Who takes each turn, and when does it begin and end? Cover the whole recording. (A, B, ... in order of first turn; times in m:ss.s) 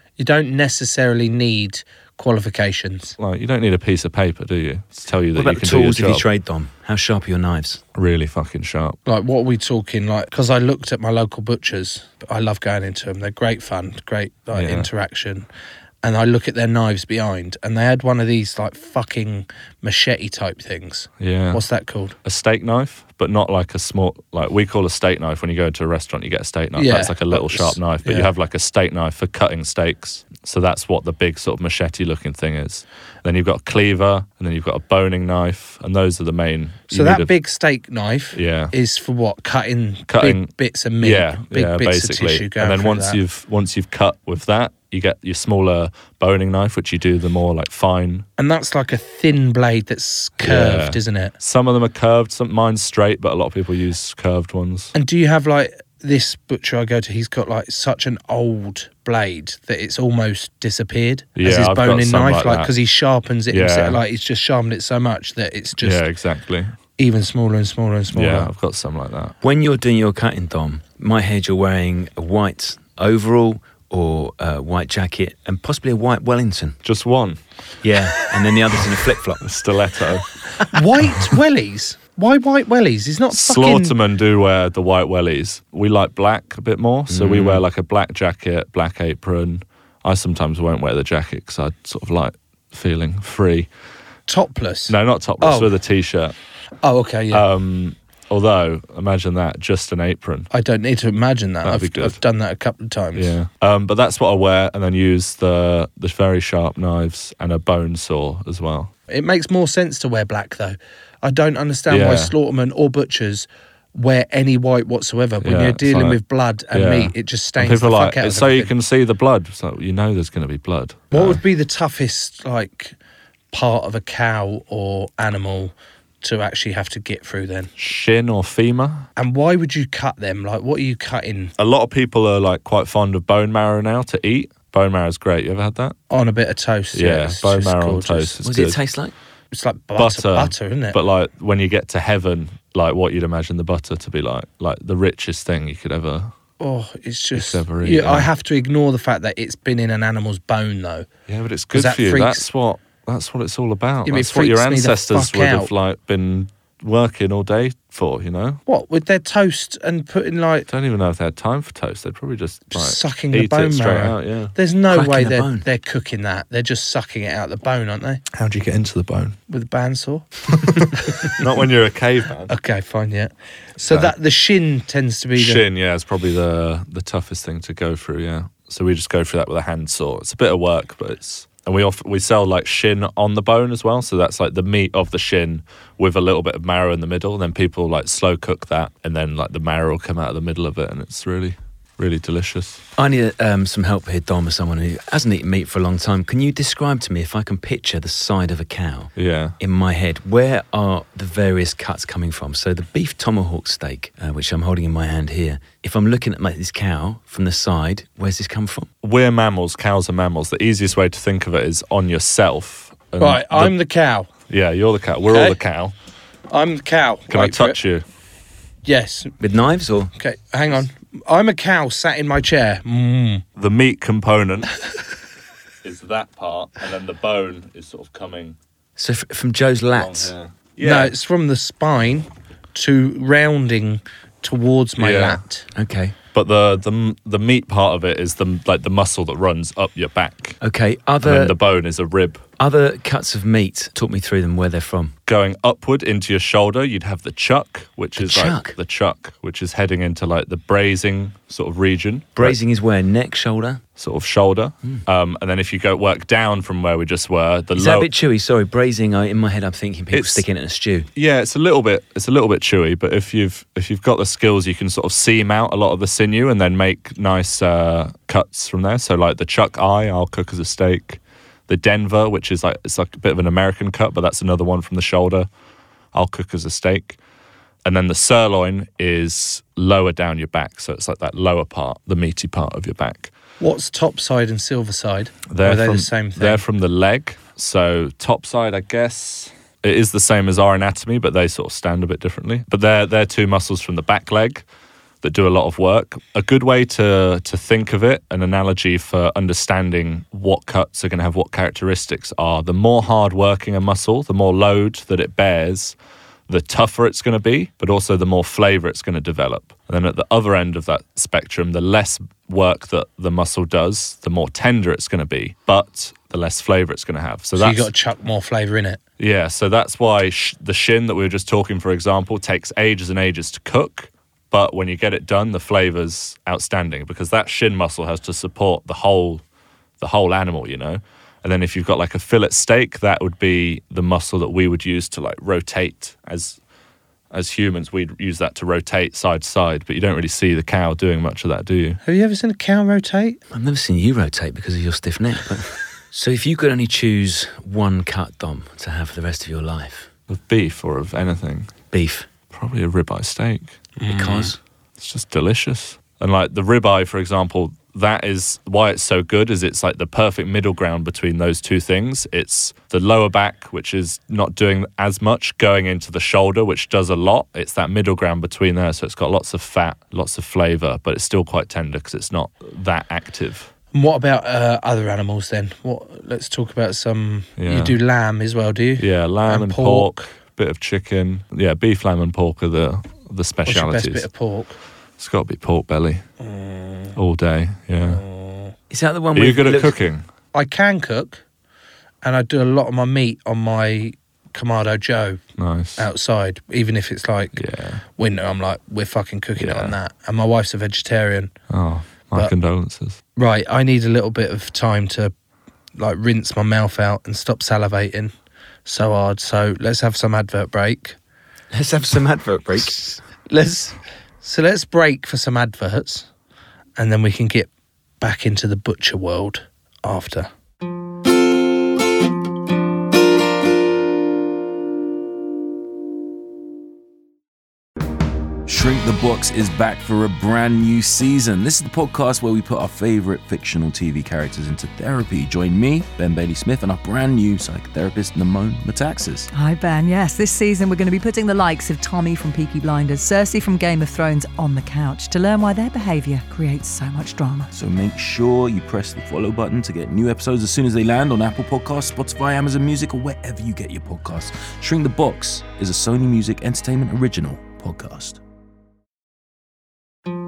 0:00.2-0:03.1 A
0:03.2-0:06.2 B
0:05.3-0:07.8 C
0:07.9-0:09.0 B
0:09.0-0:15.5 A
0:14.5-0:14.9 B
0:16.0-0:22.1 A
0:21.2-0:21.6 B
0:22.2-0:37.3 B
0:26.8-0:28.3 A
0:36.9-0:43.2 A
0:38.3-0:38.7 B
0:40.1-0:48.2 B
0:48.4-0:51.3 A
0:50.4-0:54.9 B
0:54.9-1:06.0 A
1:01.4-1:02.7 B
1:03.5-1:04.0 B
1:05.8-1:06.7 B
1:07.0-1:08.5 A
1:08.1-1:09.3 B
1:09.4-1:16.8 C
1:16.8-1:17.4 B
1:17.8-1:19.4 C
1:19.4-1:20.3 B
1:20.7-1:23.9 A
1:23.3-1:33.7 B
1:27.1-1:27.6 C
1:34.3-1:35.7 A
1:34.9-1:36.3 B
1:36.8-1:37.4 A
1:37.3-1:40.5 B
1:40.5-1:43.3 A
1:41.6-1:42.2 B
1:43.1-1:48.9 B
1:49.1-1:58.7 A
1:51.9-1:52.3 B
1:55.4-1:56.2 B
1:56.7-2:01.4 B
2:01.1-2:03.0 A
2:03.5-2:07.7 A
2:07.8-2:09.1 B
2:09.2-2:11.5 A
2:11.6-2:16.0 B
2:16.1-2:18.4 A
2:16.9-2:18.8 B
2:18.4-2:19.1 C
2:19.5-2:21.0 A
2:20.0-2:26.3 B
2:26.6-2:31.1 A
2:27.3-2:28.3 B
2:31.3-2:38.6 B
2:31.7-2:32.4 A
2:34.0-2:35.7 A
2:38.7-2:40.7 A
2:40.7-2:44.6 B
2:42.7-2:48.2 A
2:44.9-2:45.6 C
2:48.3-2:49.4 B
2:49.5-2:51.2 A
2:50.6-2:52.5 B
2:52.5-2:55.6 A
2:53.8-2:54.1 B
2:55.4-3:12.8 B
3:13.0-3:28.9 C
3:19.2-3:19.6 B
3:29.0-3:33.7 B
3:33.2-3:34.3 A
3:34.5-3:35.9 B
3:35.3-3:35.6 A
3:36.5-3:37.8 A
3:37.3-3:38.0 B
3:38.8-3:39.3 A
3:39.4-3:40.1 C
3:40.2-3:43.4 A
3:43.6-3:44.7 B
3:45.8-3:48.6 B
3:49.0-3:50.3 C
3:49.9-3:51.1 B
3:50.8-3:55.6 A
3:55.0-3:55.4 B
3:55.7-3:56.1 C
3:56.3-4:00.6 B
4:00.6-4:01.6 C
4:01.2-4:02.4 B
4:02.6-4:05.2 C
4:05.3-4:12.6 B
4:08.2-4:08.7 C
4:12.4-4:13.8 C
4:14.0-4:18.1 B
4:17.7-4:21.1 C
4:20.1-4:20.4 B
4:21.2-4:35.5 B
4:36.1-4:37.2 B
4:37.8-4:43.3 B
4:43.6-4:46.6 A
4:45.5-4:54.6 B
4:55.2-5:06.0 B
5:06.5-5:17.9 B
5:17.6-5:19.0 A
5:19.2-5:29.4 B
5:30.0-5:36.6 B
5:37.3-5:42.0 B
5:42.0-5:43.4 A
5:43.5-5:50.1 C
5:50.3-5:51.7 B
5:51.9-5:52.3 C
5:52.5-5:53.8 B
5:54.0-5:54.5 A
5:54.0-5:54.6 C
5:55.0-6:13.7 B
6:13.9-6:20.3 A
6:17.6-6:18.0 B
6:19.0-6:24.3 B
6:23.7-6:24.8 A
6:25.2-6:26.2 B
6:26.4-6:27.2 A
6:27.2-6:28.2 B
6:28.0-6:28.7 A
6:28.9-6:30.0 C
6:29.3-6:30.2 B
6:30.5-6:31.4 A
6:32.2-6:35.4 A
6:35.6-6:36.1 B
6:36.0-6:37.6 A
6:37.6-6:38.0 B
6:38.2-6:41.5 A
6:39.6-6:39.9 B
6:41.7-6:43.2 B
6:43.4-6:45.3 A
6:46.0-6:48.3 A
6:48.8-6:51.2 A
6:51.7-6:53.2 C
6:53.5-6:56.3 A
6:57.0-6:57.7 A
6:58.2-7:00.5 A
7:08.6-7:19.5 D
7:19.5-7:27.7 E
7:27.7-7:38.4 D